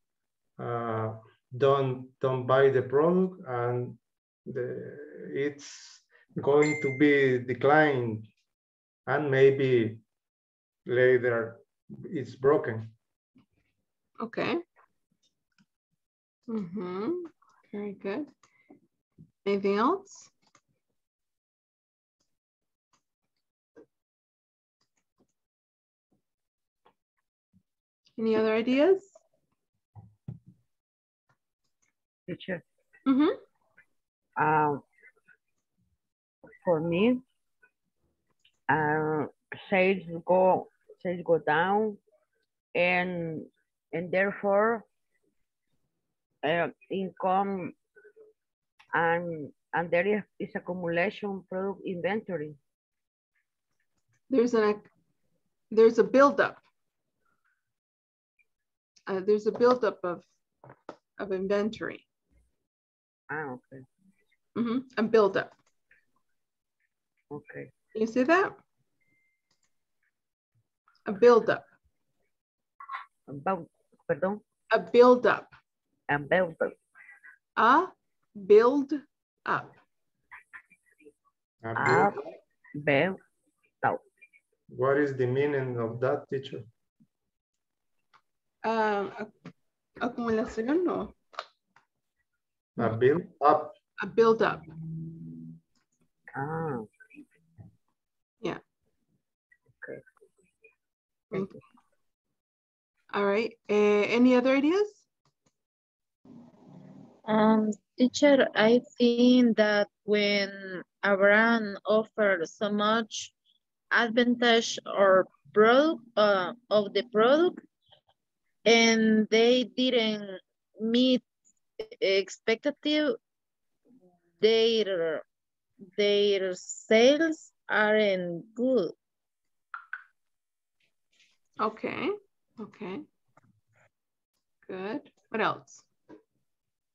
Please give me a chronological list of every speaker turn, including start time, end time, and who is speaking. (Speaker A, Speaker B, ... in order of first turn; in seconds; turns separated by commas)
Speaker A: 0.6-8.3, Speaker A: 9.1-10.0, Speaker A: 10.9-12.9, Speaker B: 14.2-14.6, Speaker B: 16.5-18.3, Speaker B: 19.5-20.3, Speaker B: 28.2-29.2, Speaker C: 32.3-32.6, Speaker B: 33.1-33.3, Speaker C: 34.4-34.8, Speaker C: 36.6-37.2, Speaker C: 38.7-42.0, Speaker C: 42.8-44.9, Speaker C: 46.4-47.8, Speaker C: 48.9-52.6, Speaker B: 54.3-54.9, Speaker B: 55.7-56.6, Speaker B: 59.1-60.3, Speaker B: 61.2-62.0, Speaker C: 63.3-63.9, Speaker B: 64.6-65.5, Speaker C: 67.3-67.7, Speaker B: 68.0-68.6, Speaker B: 71.1-71.6, Speaker C: 73.3-74.4, Speaker B: 74.7-75.5, Speaker C: 76.1-76.8, Speaker B: 77.6-79.7, Speaker A: 81.6-82.2, Speaker C: 81.8-83.2, Speaker A: 84.7-86.7, Speaker B: 88.6-89.3, Speaker B: 90.0-91.2, Speaker A: 92.8-93.8, Speaker B: 94.0-94.6, Speaker C: 96.3-97.2, Speaker B: 103.1-105.0, Speaker D: 107.3-113.3, Speaker D: 113.9-117.6, Speaker D: 118.7-121.2, Speaker D: 121.8-123.2, Speaker D: 124.4-125.2, Speaker D: 126.0-128.9, Speaker B: 131.6-133.1, Speaker B: 134.7-135.8